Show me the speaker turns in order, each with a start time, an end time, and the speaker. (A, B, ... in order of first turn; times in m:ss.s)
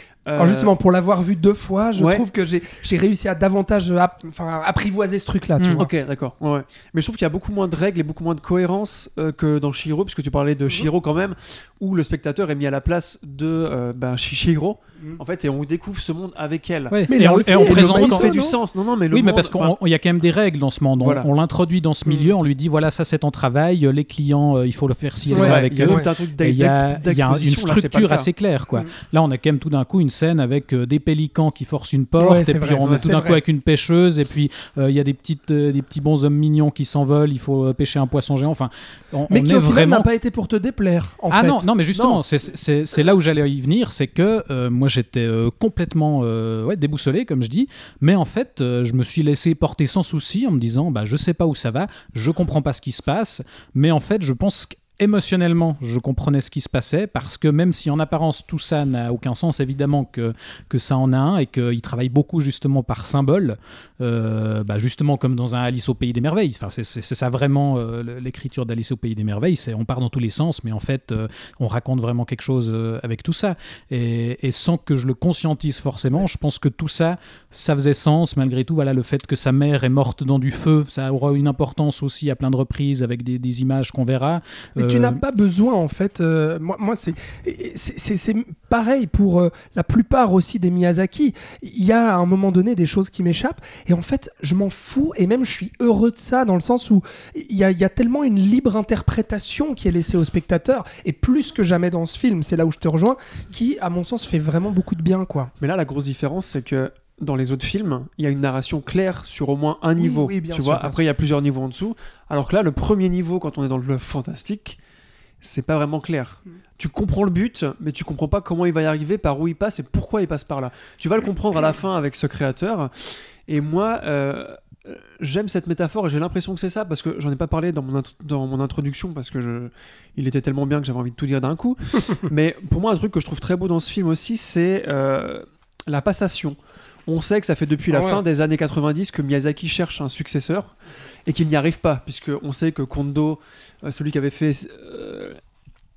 0:00.2-0:00.7 A
0:00.4-0:05.9 B
0:02.0-0:02.2 A
0:05.6-0:05.8 C
0:05.8-0:19.8 A
0:16.9-0:18.4 C
0:17.1-0:18.5 B
0:19.1-0:40.1 C
0:21.0-0:21.3 A
0:25.3-0:28.3 A
0:25.3-0:26.1 B
0:32.2-0:33.4 B
0:32.8-0:33.1 A
0:39.3-0:41.6 B
0:41.3-1:25.2 C
0:41.9-0:42.2 A
1:24.8-1:45.5 B
1:45.6-1:54.8 A
1:50.0-1:51.0 B
1:55.4-2:20.8 A
2:17.9-2:18.2 B
2:21.3-2:25.4 A